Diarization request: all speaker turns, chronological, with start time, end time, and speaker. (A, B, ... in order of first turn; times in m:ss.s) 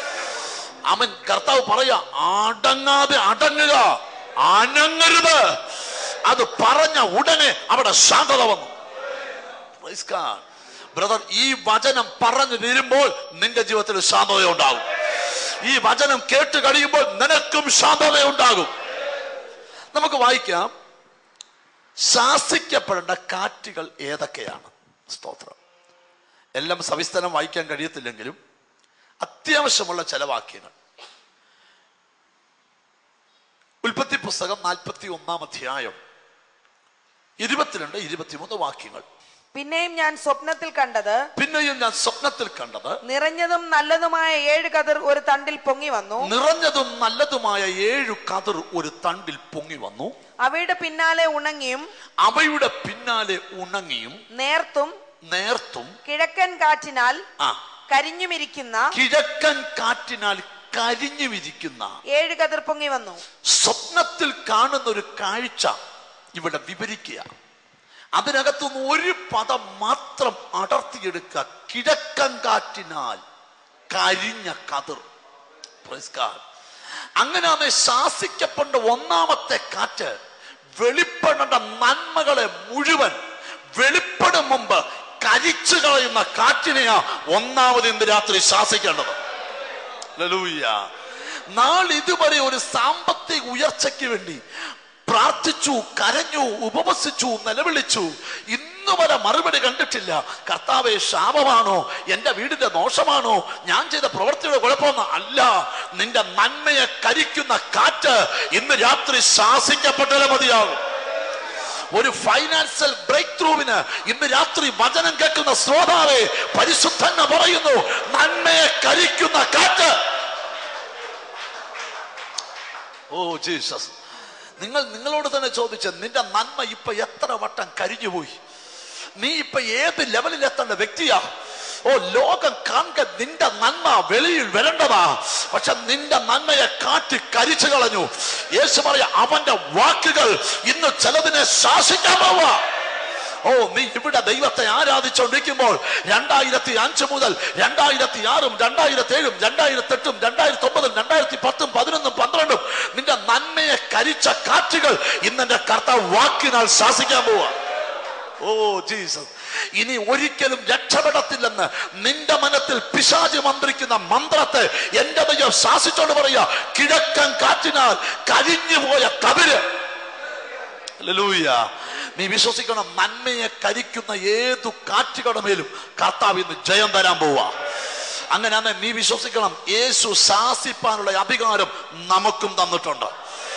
0:00.9-0:05.6 A
0:06.2-0:08.7 A
0:09.8-0:18.7 A
0:19.9-0:20.7 A
0:22.0-0:25.6 A
0:26.6-0:28.4 A
0:29.2-0:30.7 A
0:33.8-0:36.0 A
0:37.4-0:39.0 A
0:39.5-0:41.2 B
0:41.4-0:43.0 A
0:43.0-0:46.3 B
0:46.2-0:50.1 A
0:50.4-0:51.9 B
0:52.2-0:54.2 A
0:54.3-0:54.9 B
0:55.2-0:55.9 A
0:56.0-0:57.2 B
0:57.9-0:58.9 B
0:58.9-1:02.0 A
1:02.1-1:03.2 B
1:03.4-1:05.8 A
1:06.3-1:07.3 A
1:08.1-1:13.2 A
1:13.9-1:15.0 A
1:15.8-1:16.4 A
1:17.2-1:20.1 A
1:20.8-1:23.2 A
1:23.8-1:29.2 A
1:30.2-1:30.9 A
1:31.5-1:34.4 A
1:35.1-1:50.8 A
1:51.9-1:59.9 A
2:03.1-2:03.9 A
2:04.6-2:08.4 A
2:09.2-2:11.2 A
2:11.8-2:22.6 A
2:23.4-2:37.5 A
2:38.4-2:49.6 A
2:51.0-2:51.6 A
2:52.1-2:57.5 A
2:58.3-3:03.1 A